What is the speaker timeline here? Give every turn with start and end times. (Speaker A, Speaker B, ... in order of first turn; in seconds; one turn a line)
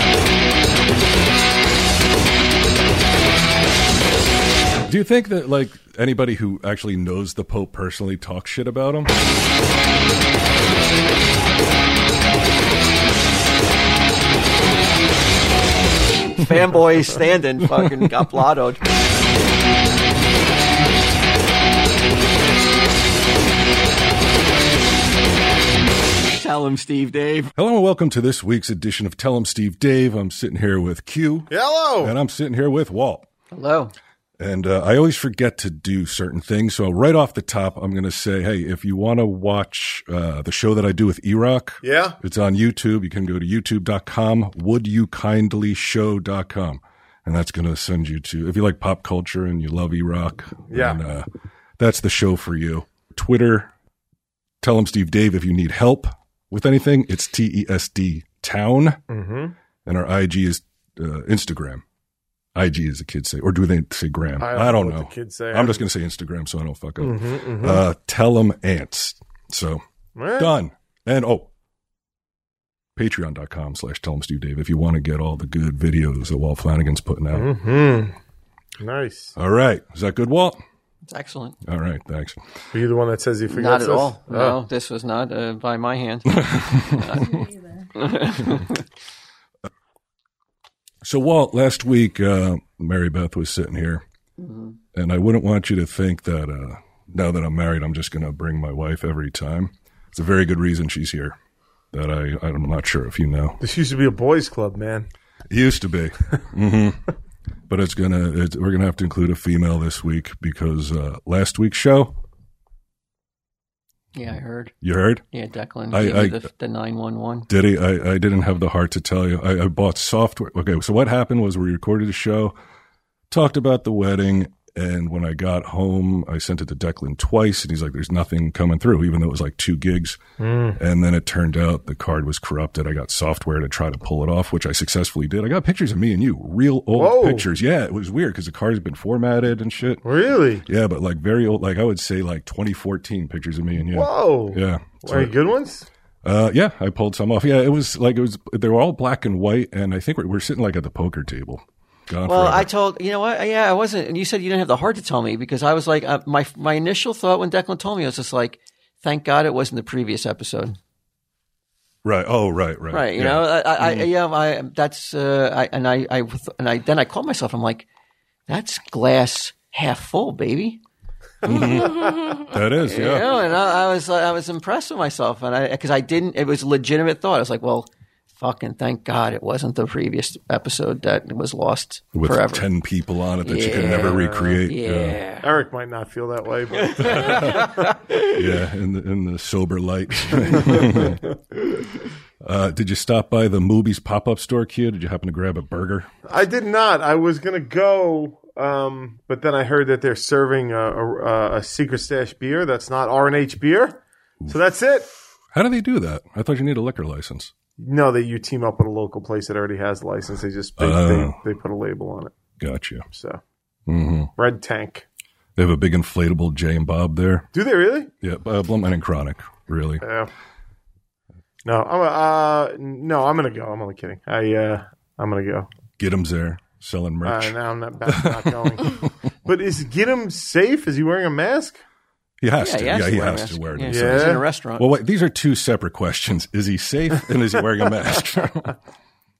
Speaker A: 4.8-9.1
Speaker B: 16.4-18.8
Speaker B: 26.2-27.5
Speaker A: 27.6-33.3
Speaker C: 31.5-32.1
Speaker B: 33.5-33.9
Speaker A: 34.4-51.3
Speaker C: 41.8-42.2
Speaker C: 50.7-51.0
Speaker A: 51.8-53.7
Speaker A: 54.6-59.0
Speaker C: 59.1-59.5
Speaker A: 59.9-61.8
Speaker A: 62.5-69.8
Speaker C: 64.4-65.8
Speaker C: 67.0-67.8
Speaker C: 70.2-70.5
Speaker A: 70.4-71.5
Speaker A: 73.0-77.5
Speaker C: 77.3-78.2
Speaker C: 78.8-79.3
Speaker A: 79.4-80.6
Speaker B: 81.1-81.6
Speaker A: 81.6-82.4
Speaker C: 82.7-84.6
Speaker B: 83.5-88.8
Speaker A: 86.4-87.3
Speaker A: 91.0-94.0
Speaker B: 94.4-94.8
Speaker A: 94.9-101.4
Speaker A: 101.9-103.6
Speaker C: 103.6-105.1
Speaker A: 105.5-107.0
Speaker A: 107.7-112.2
Speaker B: 114.1-114.7
Speaker A: 114.8-115.2
Speaker B: 115.3-117.5
Speaker A: 115.9-116.4
Speaker A: 117.5-122.5
Speaker A: 123.3-130.2
Speaker C: 130.4-130.8
Speaker A: 130.8-140.0
Speaker C: 136.9-137.5
Speaker C: 140.0-140.7
Speaker A: 140.7-145.3
Speaker C: 143.9-145.9
Speaker A: 146.2-152.7
Speaker B: 152.3-160.8
Speaker A: 162.0-164.1
Speaker B: 162.9-167.9
Speaker B: 168.5-170.8
Speaker A: 171.4-173.3
Speaker B: 172.8-182.7
Speaker A: 182.1-185.2
Speaker B: 183.4-185.5
Speaker C: 183.8-184.6
Speaker C: 185.4-187.9
Speaker B: 186.8-188.4
Speaker A: 187.0-187.7
Speaker A: 188.3-191.2
Speaker C: 190.6-191.2
Speaker A: 192.4-196.1
Speaker C: 196.3-205.1
Speaker A: 205.5-207.5
Speaker C: 207.8-212.3
Speaker A: 210.8-211.4
Speaker A: 212.6-213.1
Speaker C: 213.1-213.4
Speaker A: 213.9-214.3
Speaker C: 214.4-215.1
Speaker A: 215.6-217.5
Speaker C: 217.5-218.1
Speaker A: 218.2-220.1
Speaker C: 220.0-220.3
Speaker C: 221.7-225.7
Speaker A: 226.0-227.6
Speaker C: 227.2-231.8
Speaker A: 228.1-229.1
Speaker A: 232.4-238.8
Speaker B: 232.6-234.9
Speaker C: 233.9-234.4